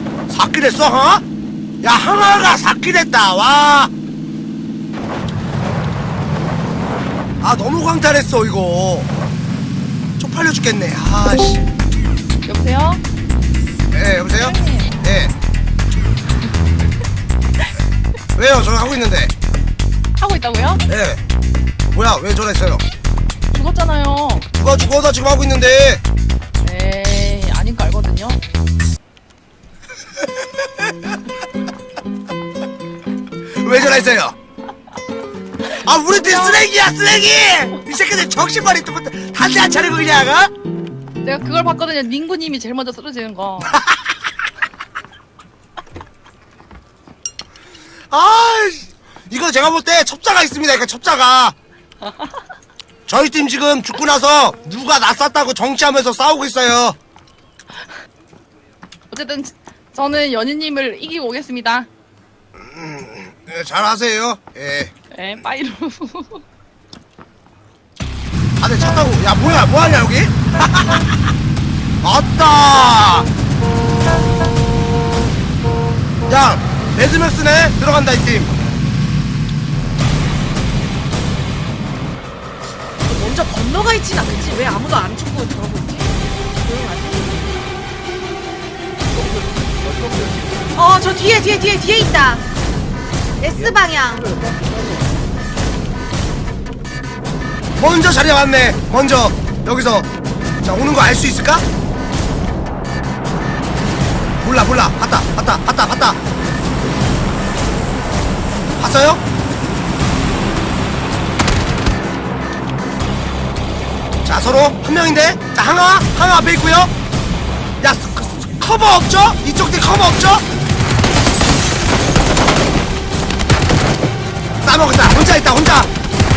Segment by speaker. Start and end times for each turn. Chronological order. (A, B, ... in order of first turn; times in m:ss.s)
0:00.3-0:01.2 A
0:01.8-0:03.9 A
0:07.4-0:09.1 A
0:10.2-0:11.6 A
0:12.5-0:13.0 B
0:13.9-0:15.3 A
0:14.3-0:14.9 B
0:18.4-0:19.3 A
0:20.2-0:20.9 B
0:20.9-0:21.2 A
0:21.9-0:22.8 A
0:23.5-0:24.5 B
0:24.5-0:26.0 A
0:26.6-0:28.4 B
0:30.4-0:30.7 A
0:33.6-0:34.4 A
0:35.8-0:40.5 A
0:36.1-0:36.7 B
0:41.2-0:43.8 B
0:43.6-0:44.1 A
0:48.1-0:51.6 A
0:53.1-0:57.0 A
0:59.1-1:01.9 B
1:02.6-1:04.9 A
1:05.1-1:06.4 B
1:08.6-1:11.1 A
1:12.0-1:13.3 A
1:16.3-1:18.5 A
1:23.0-1:27.5 C
1:30.8-1:32.4 C
1:33.4-1:34.3 C
1:37.8-1:40.1 A
1:40.6-1:41.6 A
1:44.4-1:46.2 A
1:48.8-1:49.2 A
1:54.2-1:56.9 A
1:57.8-2:00.4 A
2:04.6-2:05.9 A